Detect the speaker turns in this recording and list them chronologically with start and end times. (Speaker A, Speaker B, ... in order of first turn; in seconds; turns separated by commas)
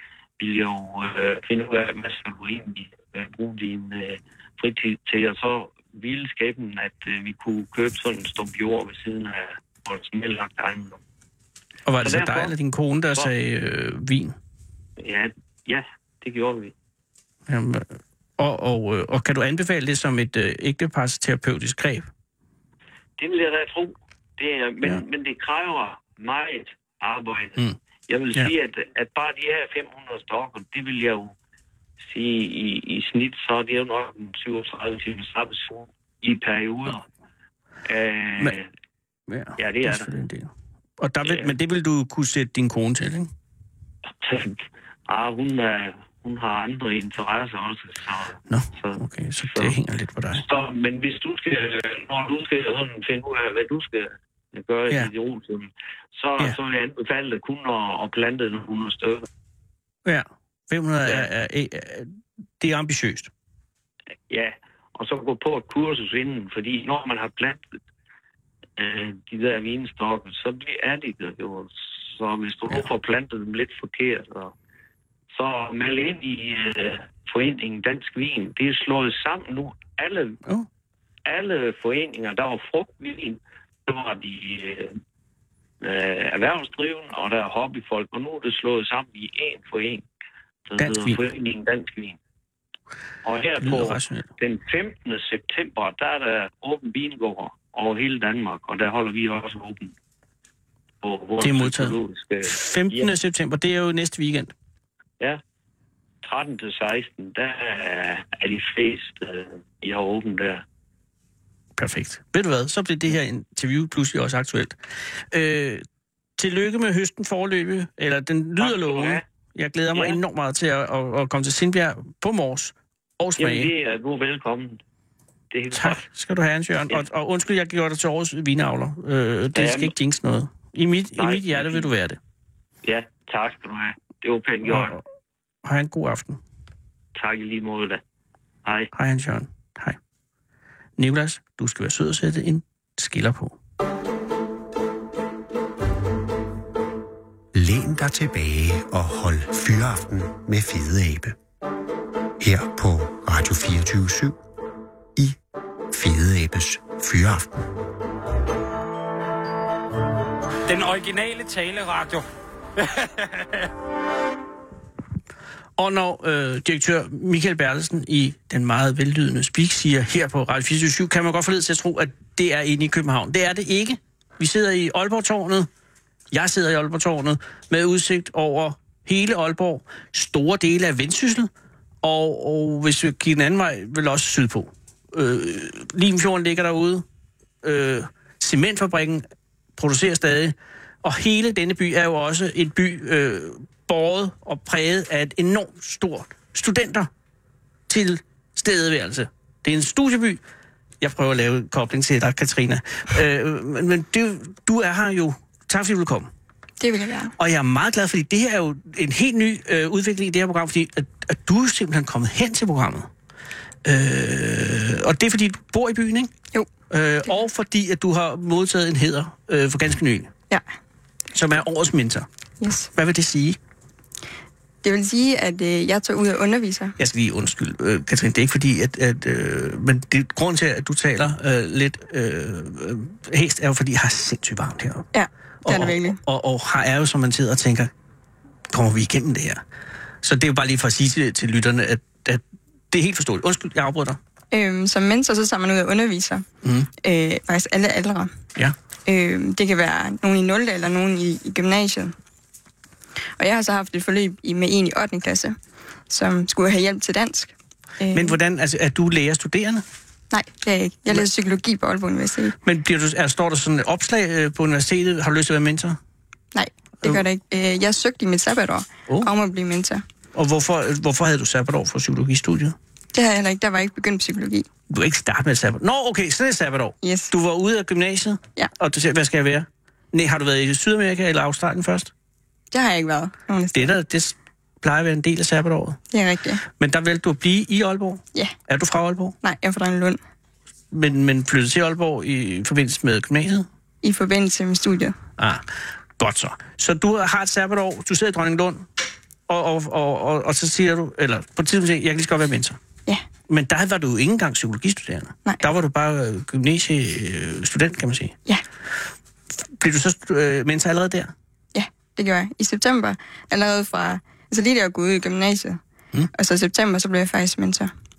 Speaker A: 0.4-11.0, Speaker B: 11.8-14.3, Speaker A: 12.0-12.5, Speaker A: 15.0-16.7, Speaker B: 17.5-22.1, Speaker A: 23.2-31.3, Speaker A: 32.0-37.0, Speaker A: 37.9-38.7, Speaker B: 39.3-43.3, Speaker A: 39.6-40.1, Speaker A: 41.2-41.5, Speaker A: 44.1-49.7, Speaker B: 48.5-50.4, Speaker A: 50.3-59.3, Speaker B: 60.0-63.3, Speaker A: 64.3-67.7, Speaker A: 68.8-74.5, Speaker A: 75.3-80.4, Speaker A: 81.2-85.0, Speaker A: 85.8-90.0, Speaker A: 90.7-92.2, Speaker B: 90.8-91.2, Speaker A: 93.2-99.9, Speaker B: 93.6-94.3, Speaker A: 101.0-103.1, Speaker B: 101.4-101.9, Speaker B: 102.4-104.5, Speaker A: 106.2-110.6, Speaker B: 111.8-114.8, Speaker B: 115.3-115.8, Speaker B: 116.4-123.7, Speaker A: 118.6-119.2, Speaker A: 119.9-120.2, Speaker A: 123.4-124.8, Speaker A: 125.5-126.0, Speaker B: 125.7-132.2, Speaker A: 129.5-129.9, Speaker A: 131.2-131.9, Speaker A: 132.8-134.9, Speaker B: 134.7-135.0, Speaker B: 135.6-136.4, Speaker A: 137.2-138.0, Speaker A: 138.6-138.9, Speaker B: 138.9-140.0, Speaker B: 141.0-143.6, Speaker C: 147.5-151.3, Speaker C: 152.4-154.4, Speaker C: 155.9-157.7, Speaker D: 160.7-163.7, Speaker B: 165.8-175.7, Speaker B: 176.3-181.5, Speaker B: 182.0-187.0, Speaker B: 187.6-189.2, Speaker B: 189.8-197.1, Speaker B: 197.9-200.4, Speaker B: 201.0-206.3, Speaker E: 206.8-207.3, Speaker B: 207.4-213.1, Speaker B: 213.8-216.3, Speaker B: 216.9-220.3, Speaker B: 221.3-222.2, Speaker E: 222.6-222.9, Speaker B: 222.9-223.6, Speaker E: 224.8-226.9, Speaker B: 227.0-235.1, Speaker E: 235.1-236.2, Speaker B: 235.6-237.9, Speaker B: 238.7-239.6, Speaker B: 240.2-244.2, Speaker E: 244.5-246.4, Speaker B: 246.6-246.9, Speaker E: 247.0-248.3, Speaker E: 249.1-252.1, Speaker E: 253.4-255.6, Speaker E: 256.1-258.4, Speaker B: 258.1-259.8, Speaker E: 260.3-262.6, Speaker B: 262.6-266.0, Speaker E: 266.5-270.0, Speaker B: 270.3-272.7, Speaker E: 273.1-274.7, Speaker B: 274.9-282.1, Speaker E: 277.0-277.3, Speaker E: 282.7-283.9, Speaker B: 283.7-286.0, Speaker E: 286.1-286.6, Speaker B: 286.7-289.3, Speaker E: 289.4-290.2, Speaker B: 290.9-293.6, Speaker E: 294.0-295.2, Speaker B: 295.4-295.7, Speaker B: 296.2-298.9, Speaker B: 299.5-302.8, Speaker B: 303.5-308.3, Speaker B: 309.6-311.3, Speaker E: 311.7-315.8, Speaker E: 316.3-317.9